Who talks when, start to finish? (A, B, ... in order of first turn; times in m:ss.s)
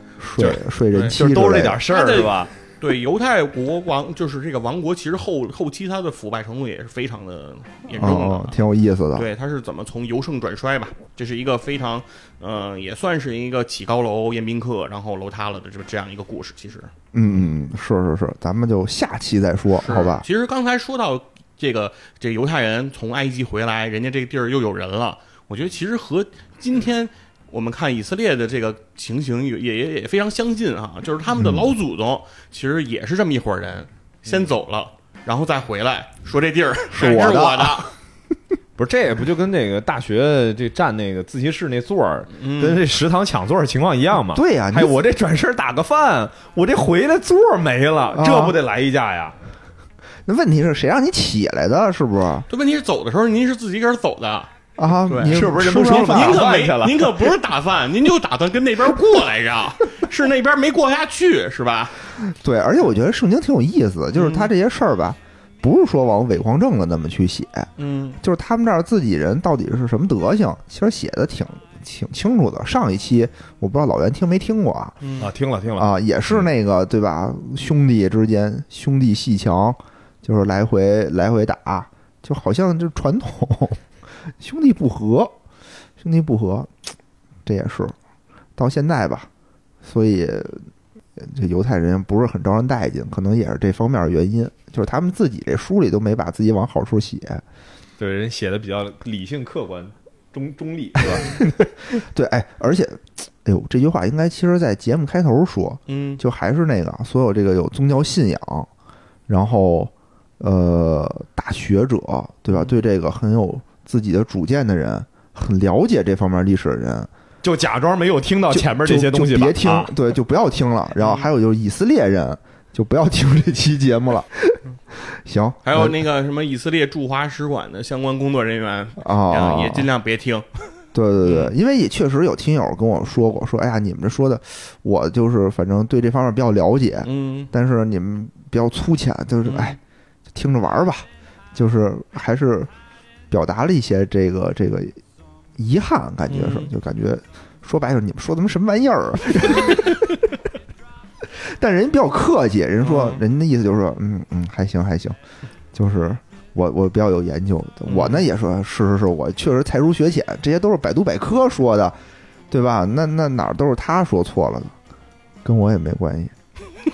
0:00.2-0:01.8 A
0:01.1-0:02.5 B
0:01.9-0:08.6 C
0:08.0-0:09.3 A
0:09.1-0:16.9 C
0:17.1-0:20.2 A
0:19.8-0:37.9 C
0:31.3-0:31.7 A
0:36.9-0:37.9 A
0:38.8-0:49.3 B
0:42.3-0:42.8 C
0:44.3-0:45.0 A
0:48.1-0:48.6 A
0:50.3-0:52.5 A
0:52.5-0:54.5 C
0:54.8-0:56.5 A
0:55.1-1:02.0 C
0:55.3-0:57.4 B
1:02.2-1:07.7 A
1:04.1-1:04.5 C
1:07.8-1:08.2 C
1:08.2-1:15.0 A
1:15.0-1:15.3 C
1:15.2-1:16.4 B
1:15.8-1:23.8 A
1:24.4-1:25.3 A
1:26.0-1:26.7 A
1:27.4-1:27.9 A
1:28.6-1:29.3 A
1:29.8-1:37.4 A
1:38.0-1:41.6 B
1:41.0-1:48.7 A
1:45.9-1:46.2 C
1:49.3-1:57.1 A
1:57.4-1:59.9 B
1:58.5-2:06.0 A
2:01.0-2:01.3 C
2:05.6-2:10.7 C
2:09.0-2:09.9 A
2:10.9-2:19.8 A
2:11.2-2:11.5 C
2:17.0-2:17.5 C
2:19.4-2:19.8 C
2:20.3-2:22.7 A
2:23.3-2:25.0 A
2:25.6-2:30.3 A
2:26.3-2:26.7 C
2:31.4-2:35.2 A
2:32.8-2:33.2 C
2:35.7-2:42.0 A
2:37.9-2:38.3 C
2:42.5-2:44.7 A
2:45.4-2:46.3 A